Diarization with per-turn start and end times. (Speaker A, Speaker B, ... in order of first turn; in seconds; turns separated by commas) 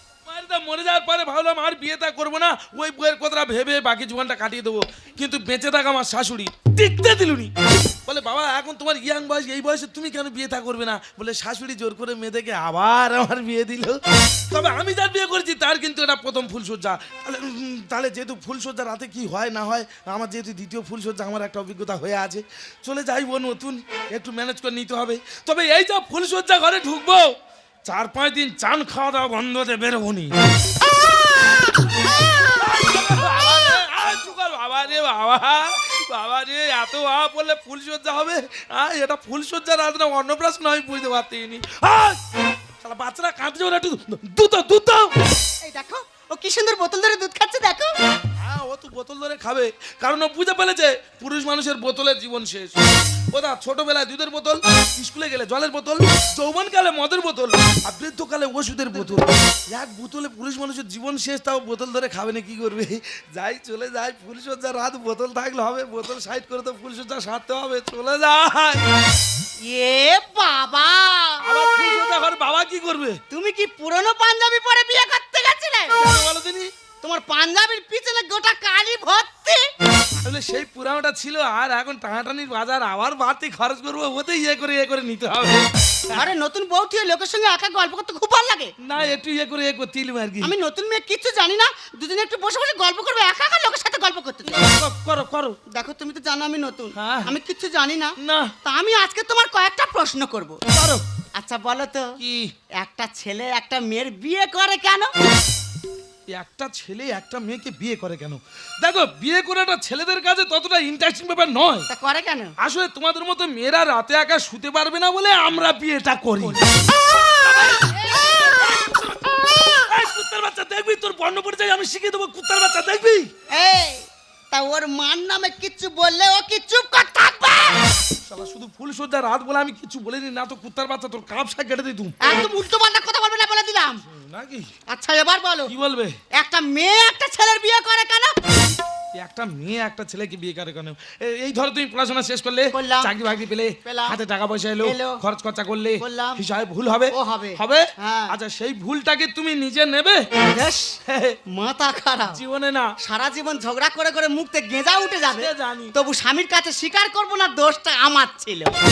Speaker A: 0.3-7.5, Speaker A: 8.1-27.3, Speaker A: 27.9-30.3, Speaker A: 32.4-42.2, Speaker A: 42.8-45.1, Speaker B: 45.6-48.0, Speaker A: 48.4-68.9, Speaker B: 69.6-71.6, Speaker A: 71.4-73.2, Speaker B: 73.3-76.0, Speaker A: 76.0-76.7, Speaker B: 77.0-79.7, Speaker A: 80.2-86.2, Speaker B: 86.1-88.7, Speaker A: 88.8-90.5, Speaker B: 90.4-94.7, Speaker A: 94.5-95.6, Speaker B: 95.7-100.6, Speaker A: 97.0-97.3, Speaker A: 98.2-98.5, Speaker A: 100.7-101.0, Speaker B: 101.3-102.2, Speaker A: 102.2-102.5, Speaker B: 102.8-105.1, Speaker A: 106.3-111.9, Speaker B: 111.9-112.5, Speaker A: 112.6-116.6, Speaker B: 116.5-119.9, Speaker A: 117.4-119.0, Speaker A: 119.8-123.3, Speaker B: 123.5-128.0, Speaker A: 128.3-132.2, Speaker B: 132.2-134.0, Speaker A: 134.1-134.7, Speaker B: 134.9-135.7, Speaker A: 135.7-136.2, Speaker B: 136.3-138.4, Speaker A: 139.2-150.3, Speaker B: 142.7-143.1, Speaker B: 143.8-144.2, Speaker B: 144.8-145.2, Speaker B: 146.0-146.4, Speaker B: 147.1-148.3, Speaker B: 150.5-151.0, Speaker A: 151.1-151.4, Speaker B: 151.5-152.4, Speaker A: 152.3-152.9, Speaker B: 153.0-158.8, Speaker A: 155.3-155.9